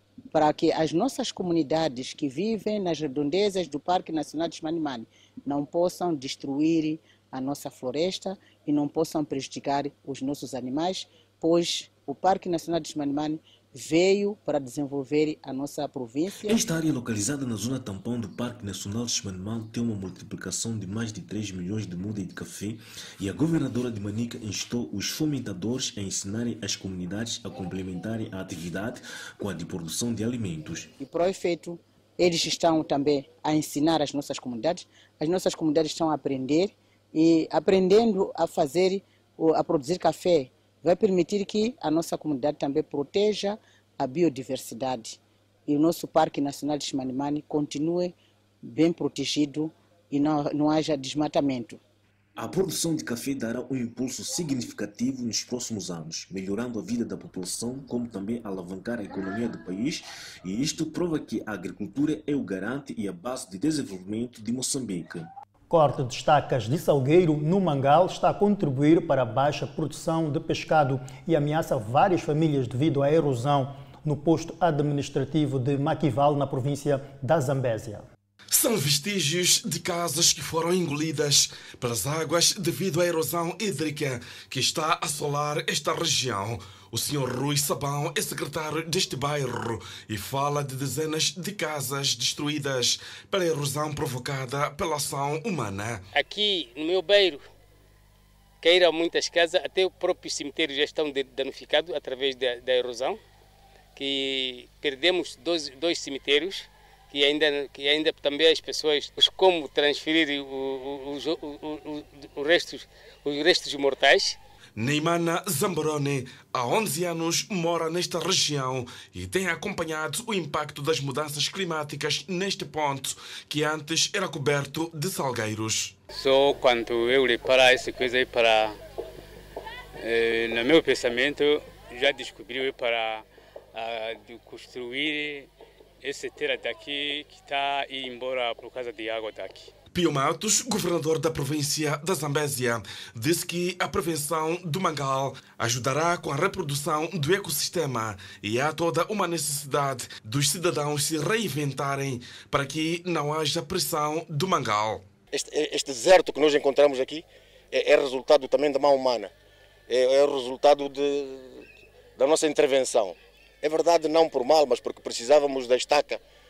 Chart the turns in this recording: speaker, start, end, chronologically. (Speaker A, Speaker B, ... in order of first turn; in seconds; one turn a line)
Speaker A: 0.3-16.6
Speaker B: 16.4-30.9
Speaker A: 31.0-48.1
Speaker A: 48.6-51.8
Speaker B: 52.4-65.3
Speaker C: 65.7-78.0
Speaker D: 78.5-96.0
Speaker E: 96.1-97.4
Speaker E: 98.6-103.2
Speaker E: 104.0-114.4
Speaker D: 114.8-125.9
Speaker E: 126.1-128.8
Speaker E: 130.0-135.5
Speaker E: 136.0-139.7
Speaker D: 139.9-155.0
Speaker F: 155.3-159.3
Speaker F: 159.9-161.5
Speaker F: 162.2-166.2